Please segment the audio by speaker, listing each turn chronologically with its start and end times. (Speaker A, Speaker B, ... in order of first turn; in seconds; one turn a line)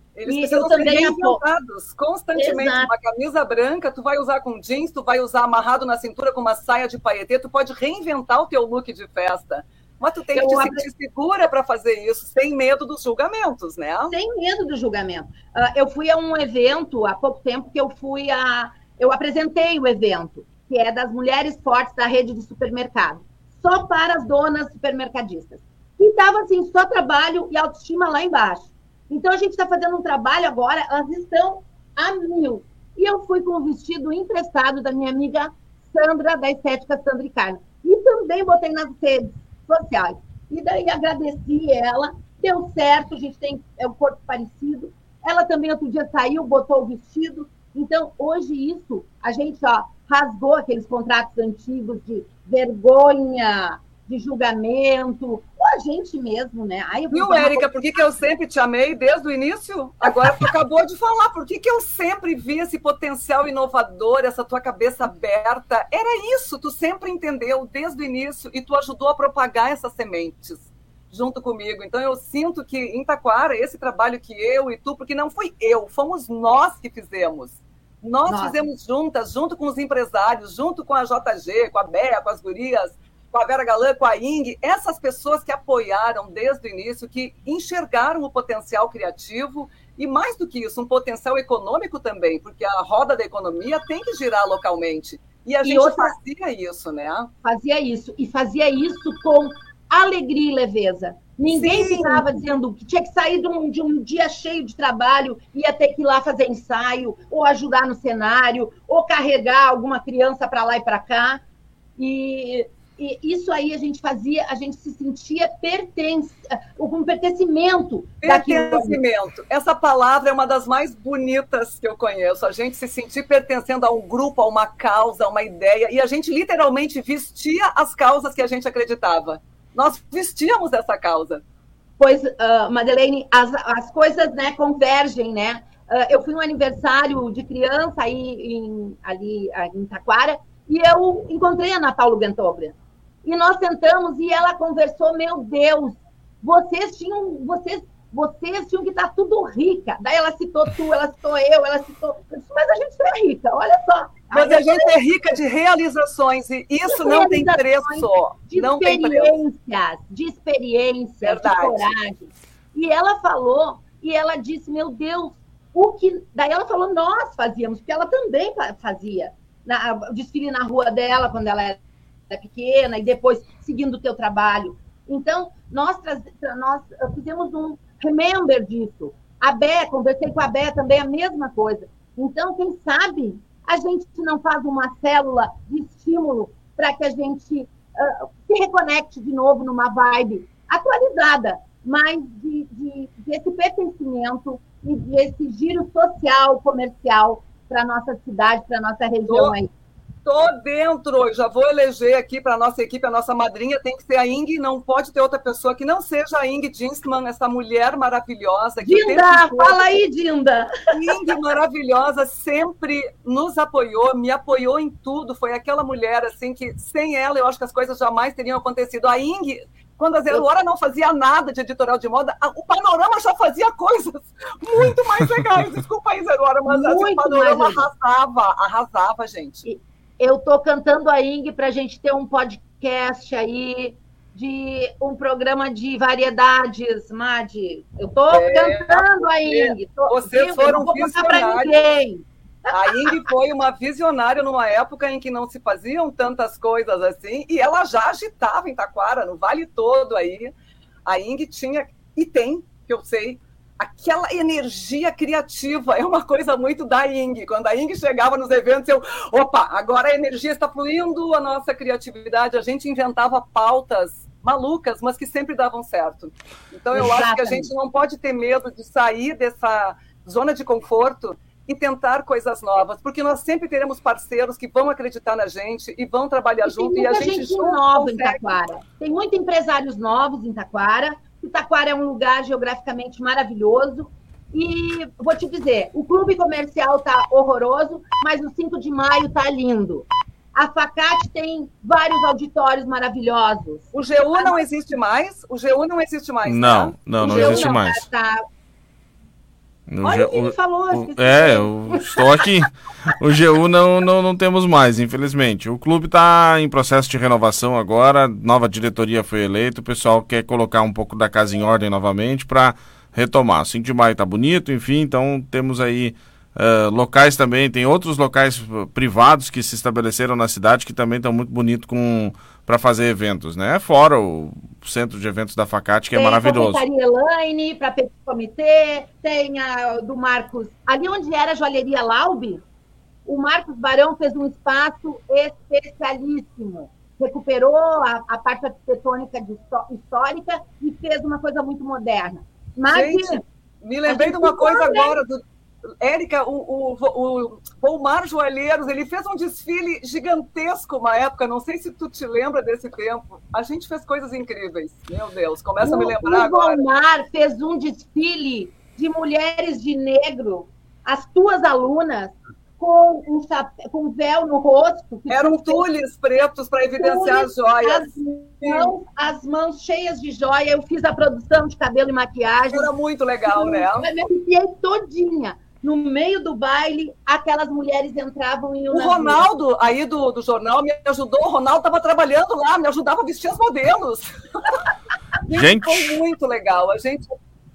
Speaker A: 0.1-14.1
Speaker B: 0.2-1.4
Speaker B: 2.4-2.9
Speaker B: 10.3-10.9
Speaker B: 14.1-57.7
Speaker A: 57.1-97.3
Speaker B: 78.2-78.6
Speaker B: 95.6-96.1
Speaker B: 97.4-111.4
Speaker A: 101.5-102.4
Speaker B: 112.0-119.0
Speaker A: 118.2-131.4
Speaker B: 132.0-154.9
Speaker A: 154.3-159.3
Speaker B: 156.9-199.7
Speaker A: 161.2-161.9
Speaker A: 199.3-199.6
Speaker A: 200.2-209.9
Speaker B: 208.8-210.7
Speaker A: 210.9-229.7
Speaker B: 226.7-227.8
Speaker B: 229.6-243.3
Speaker A: 238.3-241.8
Speaker A: 242.7-250.5
Speaker A: 251.1-278.6
Speaker B: 266.9-267.7
Speaker B: 276.6-294.6
Speaker A: 293.9-297.7
Speaker C: 296.4-298.0
Speaker B: 297.2-298.4
Speaker C: 299.9-326.8
Speaker B: 300.0-302.4
Speaker B: 326.1-332.6
Speaker B: 333.2-343.4
Speaker A: 342.9-345.4
Speaker B: 344.1-345.1
Speaker A: 346.0-356.8
Speaker B: 355.8-365.8
Speaker A: 365.3-368.9
Speaker B: 366.9-372.9
Speaker A: 372.7-374.1
Speaker B: 373.4-379.4
Speaker A: 378.9-384.3
Speaker A: 385.4-387.3
Speaker C: 385.5-386.2